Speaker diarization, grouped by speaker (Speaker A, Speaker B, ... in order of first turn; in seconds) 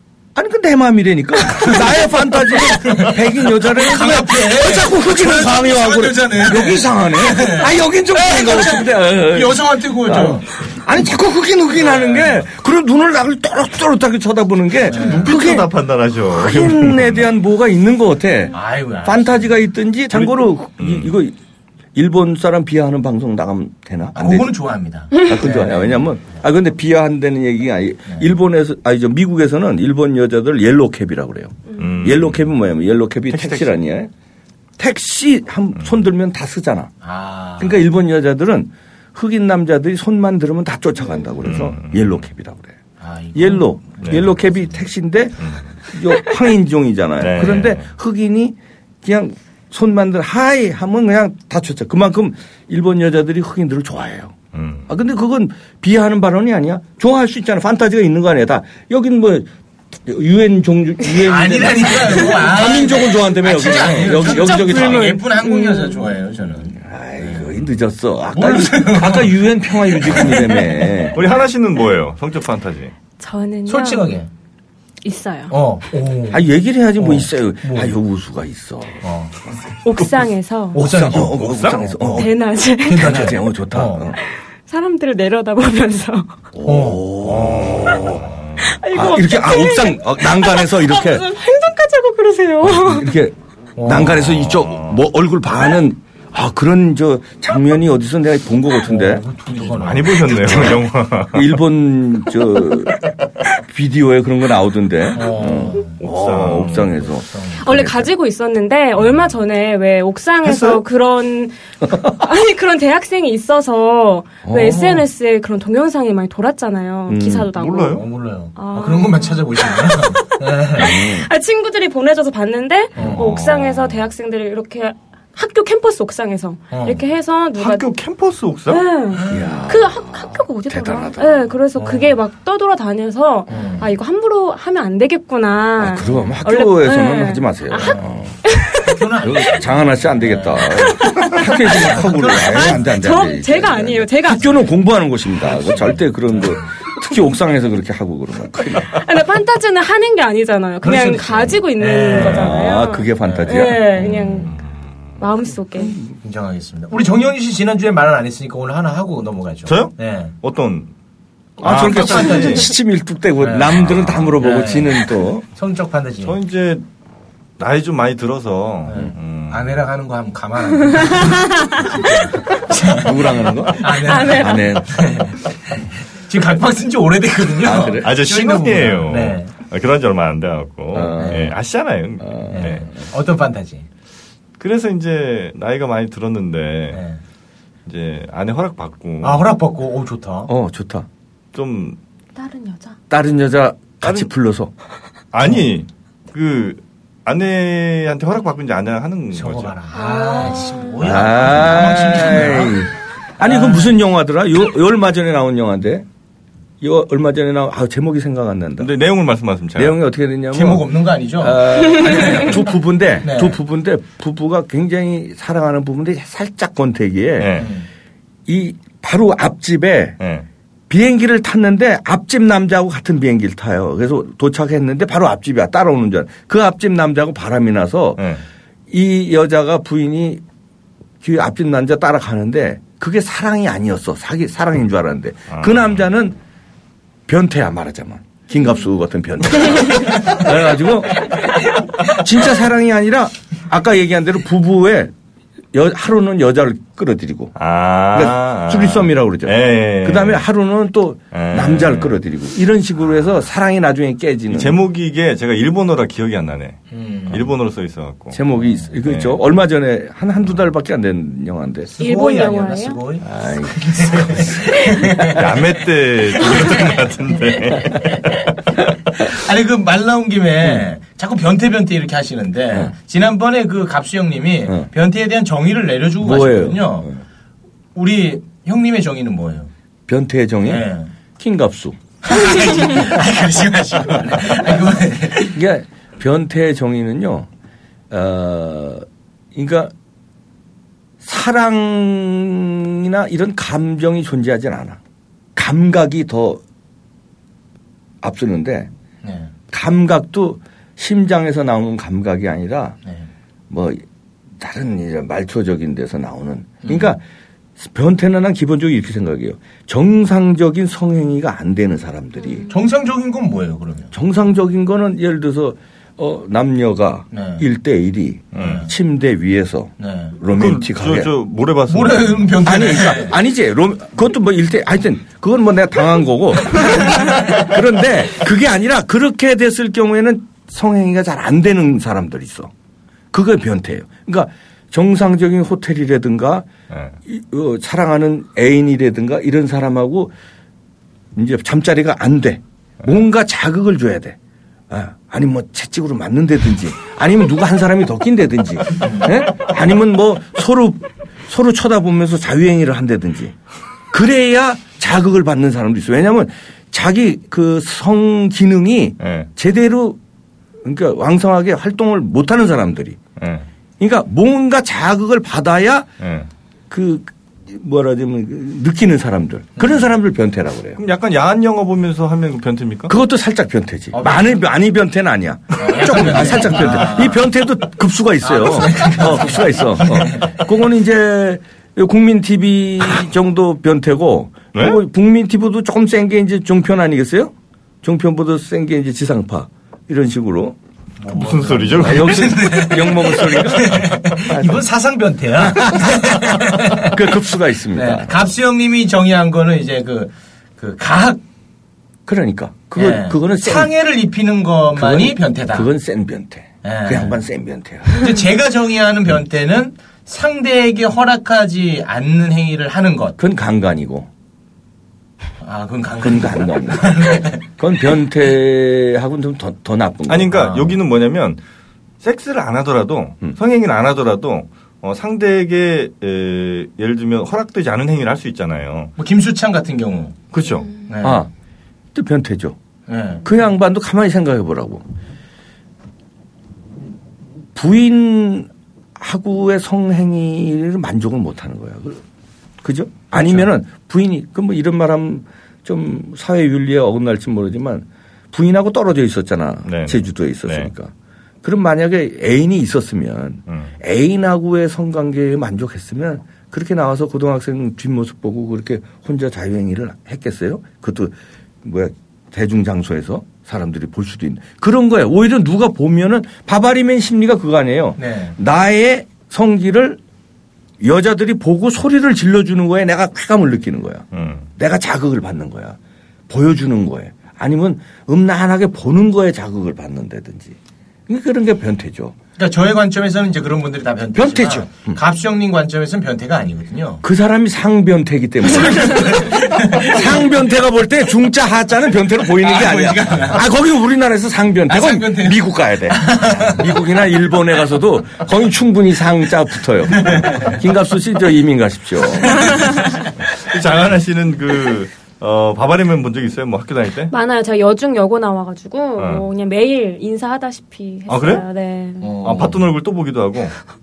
Speaker A: 0.3-15.7, 16.3-21.4, 21.9-24.5, 25.2-34.1, 34.8-36.9, 37.6-42.8, 43.3-54.4, 54.9-65.2, 66.7-71.2, 76.3-79.0, 80.8-82.3, 82.9-84.2, 86.5-88.3, 88.9-91.2, 92.6-99.2, 100.3-103.0, 103.6-108.1, 114.4-115.0, 117.1-117.5, 120.8-121.3, 123.0-123.2, 129.3-131.5, 135.8-138.4, 139.2-148.9, 152.2-153.9, 161.6-165.4, 172.9-175.1, 177.6-178.1, 180.9-181.5, 182.2-182.7, 190.5-191.1, 193.1-194.7, 201.0-206.1, 206.8-208.9, 209.8-217.7, 218.5-220.2, 220.9-228.3, 228.9-230.4, 231.2-236.4, 237.3-245.1, 245.7-247.5, 248.1-254.8, 258.3-261.9, 263.2-264.6, 276.2-277.2, 280.1-280.9, 281.4-282.0, 285.4-287.5, 288.1-289.9, 291.2-295.0, 295.6-296.6, 298.2-298.9, 299.7-303.0, 303.7-304.0, 304.6-307.2, 307.8-312.6, 314.1-321.3, 322.6-332.7, 333.3-336.7, 337.3-340.3, 341.3-344.4, 344.9-353.6, 354.1-360.2, 360.8-363.2, 364.0-366.1, 366.9-371.0, 373.1-390.8, 392.0-394.9, 395.6-398.3, 402.3-403.9, 404.9-408.2, 413.4-414.3, 416.2-420.6, 431.2-431.5, 432.1-432.8, 433.4-435.1, 437.8-442.2, 442.8-470.2, 471.0-474.2, 474.8-476.0, 476.5-480.8, 481.3-482.4, 484.4-485.2, 487.2-502.7
Speaker B: 2.7-10.5, 11.7-12.4, 14.9-15.3, 18.5-19.5, 24.1-26.0, 28.1-28.3, 37.0-37.9, 43.0-44.7, 61.2-67.5, 68.3-70.6, 73.7-74.3, 75.5-76.4, 77.0-78.0, 79.0-79.3, 80.7-82.2, 82.8-84.1, 86.7-87.8, 93.8-94.2, 98.8-100.7, 105.2-106.0, 107.3-107.6, 117.9-120.9, 126.7-127.0, 129.2-129.4, 131.8-132.2, 133.5-133.9, 137.8-138.1, 138.8-140.8, 141.7-142.7, 150.8-152.5, 153.2-154.5, 156.2-160.3, 161.7-162.6, 163.4-166.3, 168.9-171.5, 172.0-173.1, 173.7-179.5, 181.2-181.5, 182.5-183.9, 186.9-187.2, 189.2-190.5, 199.3-202.8, 203.4-203.9, 210.5-212.6, 213.2-213.6, 217.6-217.9, 256.9-257.5, 262.0-265.4, 267.9-268.2, 269.1-277.1, 277.9-279.7, 280.7-281.1, 282.2-285.6, 299.2-299.5, 306.8-307.1, 312.7-314.1, 317.3-317.6, 318.6-318.9, 320.0-320.4, 321.9-323.4, 374.1-374.6, 375.8-377.4, 378.4-380.6, 391.2-397.2, 397.9-401.4, 403.0-405.9, 406.8-407.4, 408.1-413.4, 415.6-417.6, 420.5-420.9, 429.2-430.4, 431.1-431.4, 433.1-433.5, 468.2-468.6, 482.6-487.2, 488.8-490.3, 492.6-493.6, 494.9-496.8, 500.3-500.7, 512.2-512.8
Speaker C: 14.9-17.3, 20.1-21.1, 31.8-32.5, 33.3-33.8, 41.4-42.2, 45.4-45.7, 47.2-47.9, 54.5-54.9, 71.1-72.9, 81.3-82.1, 87.4-88.7, 94.1-95.0, 99.6-101.6, 106.0-107.0, 110.4-110.8, 117.5-118.1, 123.0-124.0, 127.6-128.8, 154.5-154.9, 159.7-160.9, 161.6-162.7, 163.9-164.2, 166.2-166.8, 167.6-169.8, 178.0-182.9, 184.6-187.0, 187.9-189.5, 191.5-192.0, 194.0-194.3, 195.3-199.8, 208.8-210.0, 217.4-217.7, 220.2-220.5, 228.2-228.4, 235.5-236.0, 247.6-250.4, 251.3-252.2, 254.5-258.4, 259.0-259.4, 265.3-268.3, 318.5-318.8, 320.5-322.6, 359.2-359.5, 363.4-363.7, 366.2-366.5, 371.0-373.1, 391.3-392.8, 420.3-421.6, 422.2-429.1, 430.5-430.9, 449.9-450.9, 474.3-474.7, 503.6-507.3, 509.2-509.4, 511.3-511.6, 512.4-513.8
Speaker D: 64.1-66.1, 73.2-74.2, 75.0-75.6, 79.8-80.8, 82.2-83.1, 84.2-86.4, 88.6-93.1, 107.6-127.9, 128.7-137.9, 138.5-139.0, 141.0-144.5, 148.9-154.5, 155.2-156.0, 171.2-171.8, 174.0-174.8, 192.4-193.0, 199.9-201.0, 262.0-263.0, 507.3-512.4